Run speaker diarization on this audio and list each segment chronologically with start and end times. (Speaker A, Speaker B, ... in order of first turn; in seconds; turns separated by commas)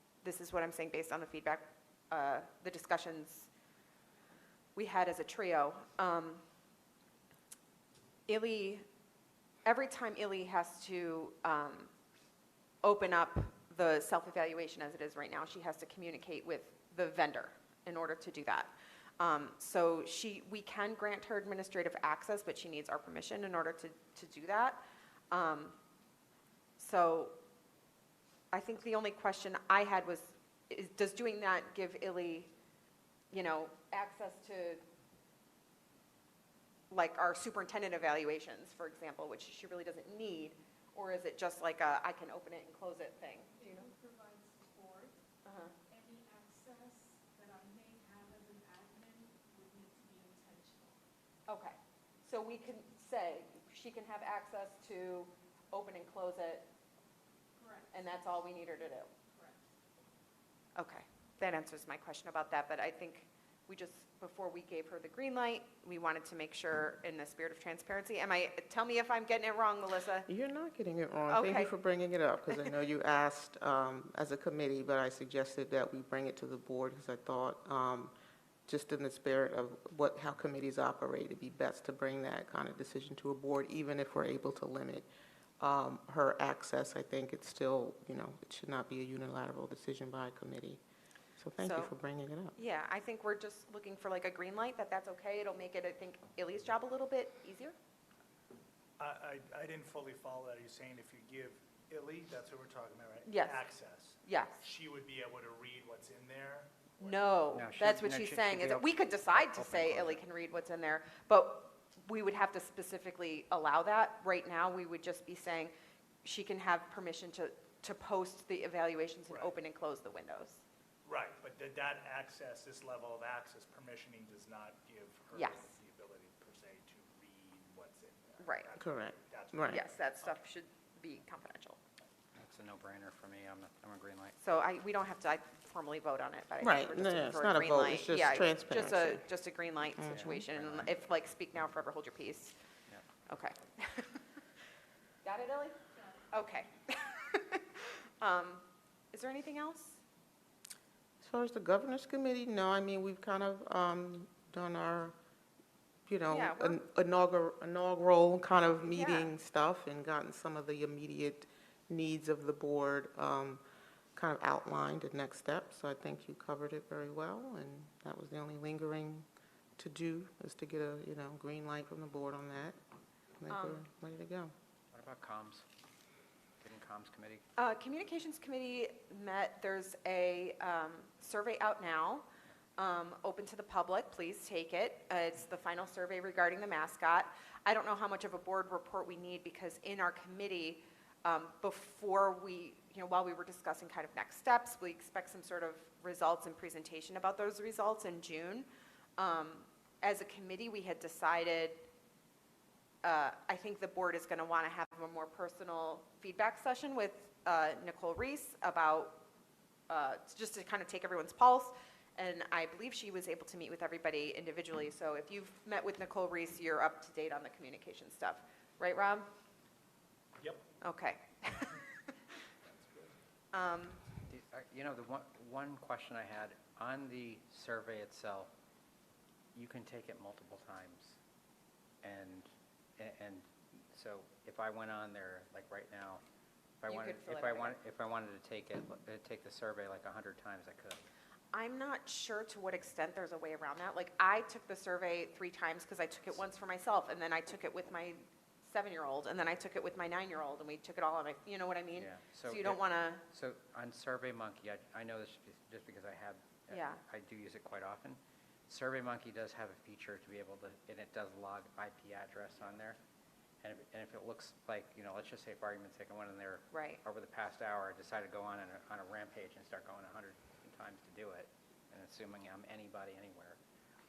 Speaker A: 0.2-3.5, Speaker A: 4.8-6.4, Speaker A: 8.3-8.8, Speaker A: 9.6-11.9, Speaker A: 12.8-24.8, Speaker A: 25.3-25.8, Speaker A: 26.8-27.3, Speaker A: 28.5-32.5, Speaker A: 33.3-34.8, Speaker A: 36.9-43.9, Speaker B: 43.6-45.2, Speaker A: 45.4-45.7, Speaker B: 45.9-51.0, Speaker A: 51.5-56.7, Speaker B: 57.6-58.0, Speaker A: 57.9-59.1, Speaker B: 59.3-59.6, Speaker A: 60.8-70.3, Speaker C: 70.3-78.1, Speaker A: 71.3-71.7, Speaker C: 78.7-85.1, Speaker C: 85.6-90.8, Speaker C: 91.4-92.5, Speaker A: 91.6-91.9, Speaker A: 92.5-97.7, Speaker D: 99.0-107.3, Speaker A: 103.2-103.6, Speaker A: 104.2-104.6, Speaker A: 107.0-115.7, Speaker E: 107.5-110.2, Speaker A: 116.2-120.6, Speaker D: 119.3-119.6, Speaker D: 121.0-130.4, Speaker A: 125.3-125.7, Speaker A: 128.4-128.7, Speaker C: 128.8-129.8, Speaker A: 129.7-131.8, Speaker E: 132.3-134.3, Speaker A: 134.4-142.5, Speaker C: 136.6-139.2, Speaker C: 140.0-140.5, Speaker E: 140.1-140.9, Speaker A: 143.3-144.2, Speaker A: 145.2-145.8, Speaker A: 146.3-150.0, Speaker C: 151.2-155.2, Speaker C: 156.1-163.6, Speaker A: 156.3-156.8, Speaker A: 158.8-159.3, Speaker C: 164.2-169.2, Speaker C: 169.8-172.8, Speaker C: 173.4-174.5, Speaker A: 173.5-173.8, Speaker E: 174.9-175.7, Speaker E: 176.6-177.4, Speaker A: 177.6-182.2, Speaker A: 182.8-198.7, Speaker A: 199.2-201.8, Speaker A: 203.0-209.2, Speaker A: 209.9-219.3, Speaker D: 220.4-220.7, Speaker A: 220.8-222.2, Speaker D: 222.6-223.2, Speaker A: 223.5-224.0, Speaker E: 224.3-228.5, Speaker E: 229.5-231.2, Speaker E: 232.0-236.2, Speaker E: 236.8-241.0, Speaker A: 236.9-237.8, Speaker A: 241.5-253.2, Speaker E: 251.9-263.0, Speaker A: 256.7-257.0, Speaker E: 263.6-273.6, Speaker A: 266.7-267.0